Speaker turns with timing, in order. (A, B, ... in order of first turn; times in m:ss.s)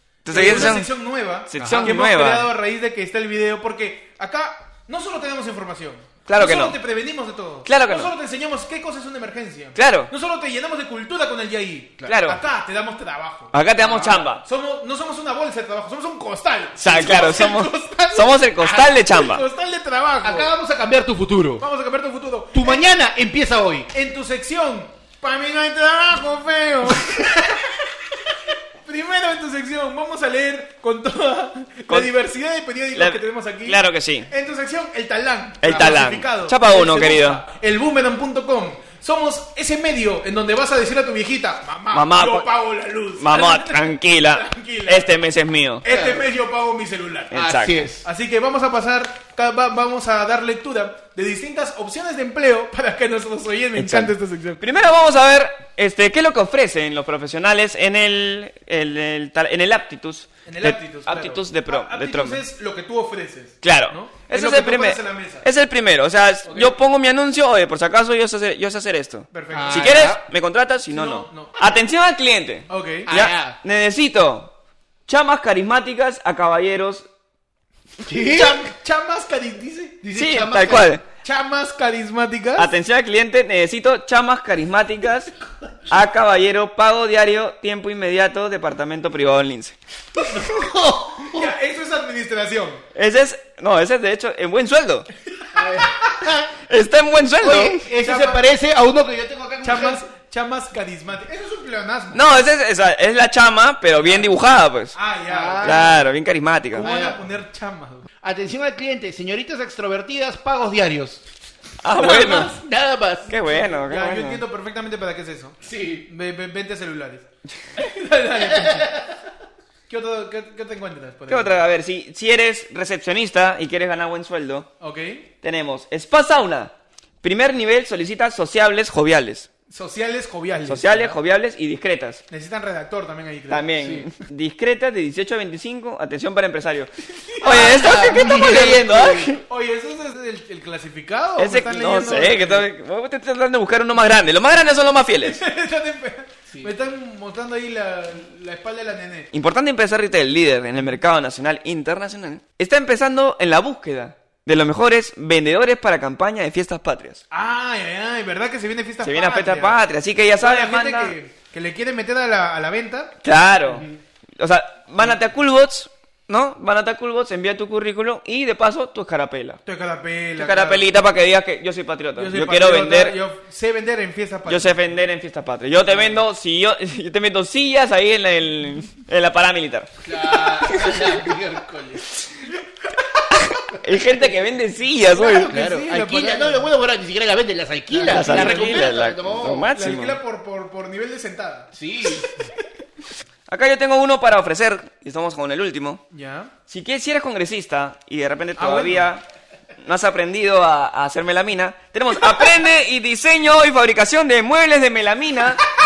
0:00.2-0:00.9 A
0:00.2-0:18.4 B
0:01.5-0:02.5 A
0:01.6-0:01.9 C
0:06.2-0:06.8 A
0:07.6-0:08.1 A
0:09.8-0:10.1 A
0:12.0-0:12.4 A
0:13.5-0:14.4 A
0:16.8-0:19.4 A
0:18.6-0:18.9 C
0:18.9-0:20.5 B
0:20.2-0:21.6 C
0:21.6-0:22.9 B
0:22.5-0:23.9 C
0:23.9-0:27.9 B
0:28.8-0:45.1 B
0:32.9-0:34.3 A
0:35.6-0:37.4 A
0:41.9-0:42.5 A
0:43.2-0:45.8 A
0:45.8-0:47.4 B
0:45.8-0:46.2 C
0:47.3-0:47.8 A
0:47.3-0:48.0 C
0:48.0-0:54.7 B
0:53.8-1:02.4 A
1:00.4-1:05.4 B
1:03.6-1:14.5 A
1:06.4-1:06.7 B
1:09.3-1:10.1 B
1:09.5-1:10.2 C
1:10.9-1:11.6 B
1:12.7-1:13.1 B
1:13.0-1:13.6 C
1:15.1-1:17.0 A
1:18.0-1:18.7 C
1:18.1-1:20.0 B
1:20.0-1:20.9 C
1:20.1-1:21.0 A
1:21.2-1:22.7 B
1:22.6-1:25.3 A
1:25.9-1:29.8 A
1:30.2-1:31.5 C
1:31.2-1:32.8 B
1:32.9-1:35.1 A
1:35.4-1:36.1 B
1:35.5-1:36.5 C
1:36.6-1:37.8 A
1:37.4-1:40.0 C
1:38.0-1:38.4 B
1:39.6-1:42.2 B
1:42.1-1:45.0 A
1:44.0-1:44.3 B
1:44.9-1:46.0 B
1:45.3-1:46.0 C
1:45.6-1:46.8 A
1:46.7-1:48.0 B
1:46.8-1:47.2 C
1:48.2-1:51.2 C
1:51.8-1:52.5 A
1:52.0-1:53.3 C
1:52.0-1:52.4 B
1:53.3-1:54.4 A
1:53.5-1:59.0 B
1:55.6-1:56.1 C
1:58.7-1:59.0 C
1:59.9-2:01.6 B
2:01.3-2:04.7 A
2:04.8-2:05.3 B
2:05.4-2:09.5 A
2:09.7-2:11.2 B
2:10.7-2:12.2 A
2:12.3-2:13.7 B
2:13.5-2:19.4 A
2:13.8-2:14.1 C
2:17.3-2:18.0 B
2:17.4-2:19.4 C
2:19.4-2:22.7 B
2:21.4-2:25.4 A
2:25.2-2:29.3 B
2:29.3-2:37.2 A
2:37.3-2:39.8 B
2:39.0-2:41.1 A
2:40.4-2:43.1 B
2:43.2-2:43.8 A
2:43.7-2:44.0 C
2:44.4-2:49.6 A
2:49.6-2:50.9 B
2:50.4-2:53.1 A
2:52.2-2:54.8 B
2:54.4-3:01.2 A
3:00.0-3:02.1 C
3:03.4-3:05.5 A
3:05.1-3:06.7 B
3:05.4-3:09.7 C
3:07.9-3:08.9 B
3:08.0-3:10.2 A
3:09.7-3:11.7 B
3:11.7-3:12.3 C
3:13.5-3:16.0 A
3:16.1-3:16.5 B
3:16.7-3:19.2 A
3:18.6-3:19.1 B
3:19.8-3:25.6 A